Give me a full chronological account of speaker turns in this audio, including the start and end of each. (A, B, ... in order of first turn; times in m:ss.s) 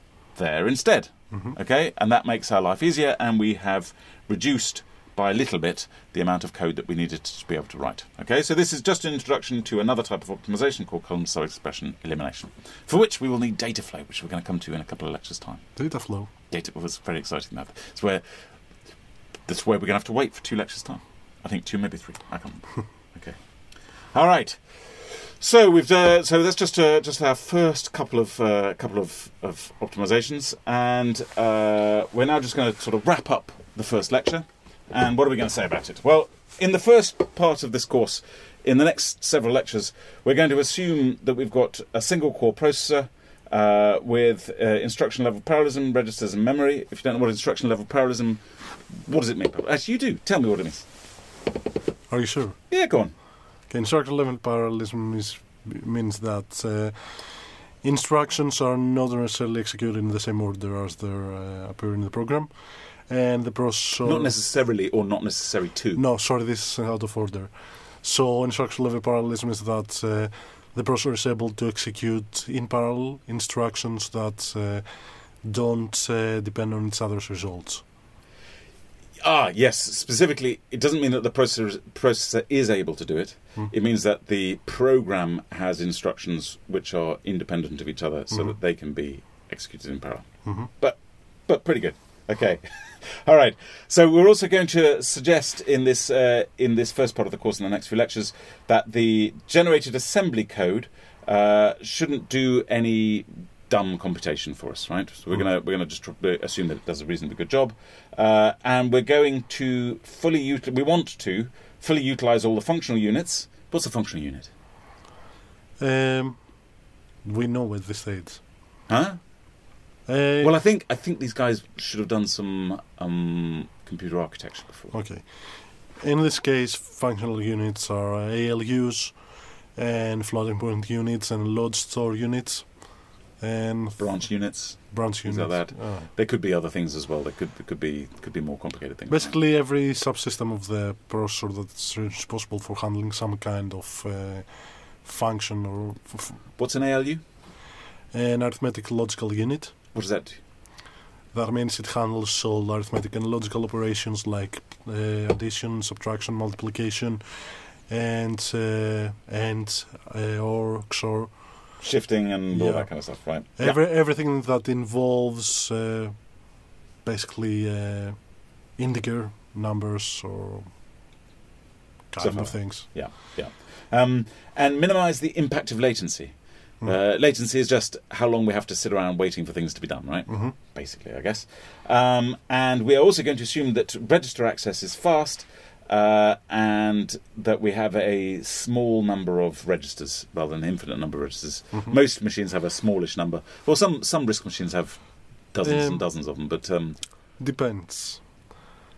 0:00.4-0:15.6 A
0:15.8-0:16.3 B
0:16.5-0:18.2 A
0:19.5-0:23.6 A
0:24.1-0:48.4 A
0:48.9-0:50.8 A
0:52.1-0:52.6 B
0:52.7-0:53.1 A
0:53.7-1:02.5 B
1:03.1-1:04.4 B
1:04.0-1:06.0 A
1:05.9-1:14.8 B
1:15.4-1:17.8 B
1:19.2-1:54.5 A
1:28.3-1:28.6 B
1:30.4-1:30.7 B
1:55.8-1:56.6 B
1:57.2-1:58.4 B
1:58.9-1:59.2 A
2:00.1-2:00.5 B
2:00.4-2:04.9 A
2:04.9-2:16.1 B
2:14.0-2:19.4 A
2:19.1-2:26.4 B
2:26.6-2:27.2 A
2:28.1-2:29.8 B
2:29.9-2:30.4 A
2:31.3-2:41.8 B
2:41.8-2:43.8 A
2:42.5-2:50.7 B
2:52.1-2:53.0 B
2:52.2-3:17.0 A
3:00.3-3:00.5 B
3:15.6-3:16.0 B
3:17.4-3:18.4 B